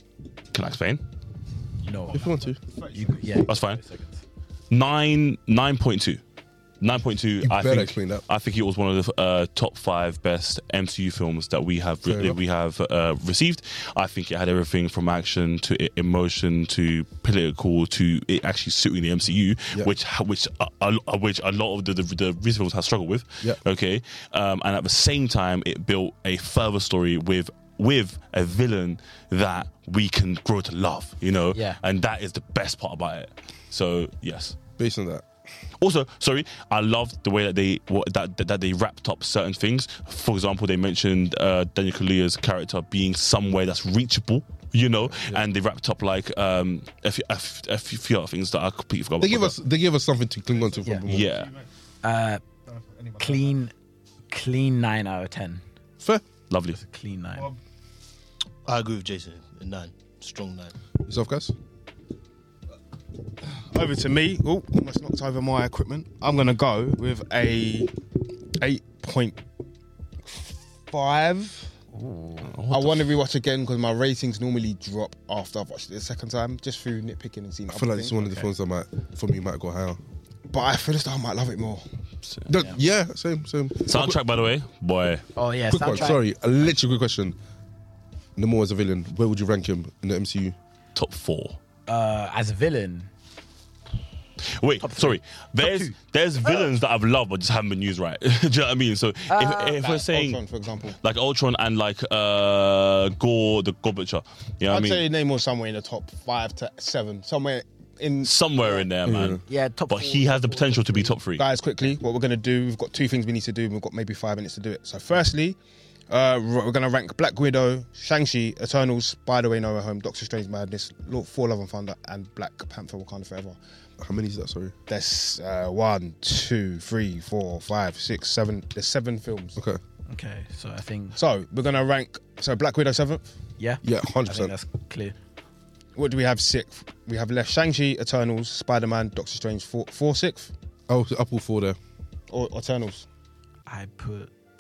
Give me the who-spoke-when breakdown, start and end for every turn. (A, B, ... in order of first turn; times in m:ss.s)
0:00.5-0:01.1 A
0:01.8-0:02.3 B
0:02.1-0:02.6 C
0:02.2-0:03.4 D
0:02.9-0:04.2 B
0:03.4-0:03.8 A
0:04.7-0:06.2 A
0:06.8-0:34.6 A
0:07.4-0:08.2 C
0:12.0-0:12.4 C
0:31.5-0:31.8 B
0:34.8-0:35.2 C
0:35.8-0:49.6 A
0:45.0-0:45.4 C
0:49.2-0:51.3 C
0:51.0-0:51.5 A
0:52.0-0:52.4 B
0:52.7-0:53.6 D
0:53.2-0:53.7 B
0:54.3-0:55.6 B
0:56.5-0:56.8 A
0:56.7-0:57.5 B
0:58.6-1:00.7 E
1:01.0-1:01.5 C
1:03.6-1:07.9 D
1:08.6-1:09.4 D
1:10.3-1:11.7 D
1:11.9-1:12.5 B
1:12.4-1:13.1 A
1:12.7-1:18.3 D
1:17.7-1:20.0 C
1:20.5-1:21.8 D
1:22.5-1:24.2 C
1:23.8-1:25.3 A
1:25.4-1:26.4 B
1:25.7-1:27.4 C
1:28.4-1:30.6 C
1:30.9-1:31.6 A
1:31.9-1:33.1 B
1:34.5-1:40.4 A
1:34.8-1:35.9 B
1:36.4-1:36.7 B
1:39.3-1:39.8 B
1:39.8-1:41.0 D
1:41.0-1:45.0 A
1:44.7-1:48.9 D
1:48.2-1:51.4 A
1:49.0-1:49.4 C
1:49.5-1:51.1 B
1:51.4-1:55.6 D
1:56.1-2:03.6 D
2:04.0-2:04.7 C
2:04.9-2:09.6 D
2:10.1-2:11.2 B
2:11.2-2:13.3 D
2:13.6-2:15.1 B
2:13.8-2:14.5 C
2:16.0-2:20.5 D
2:20.9-2:21.8 C
2:22.3-2:23.0 D
2:23.7-2:24.3 B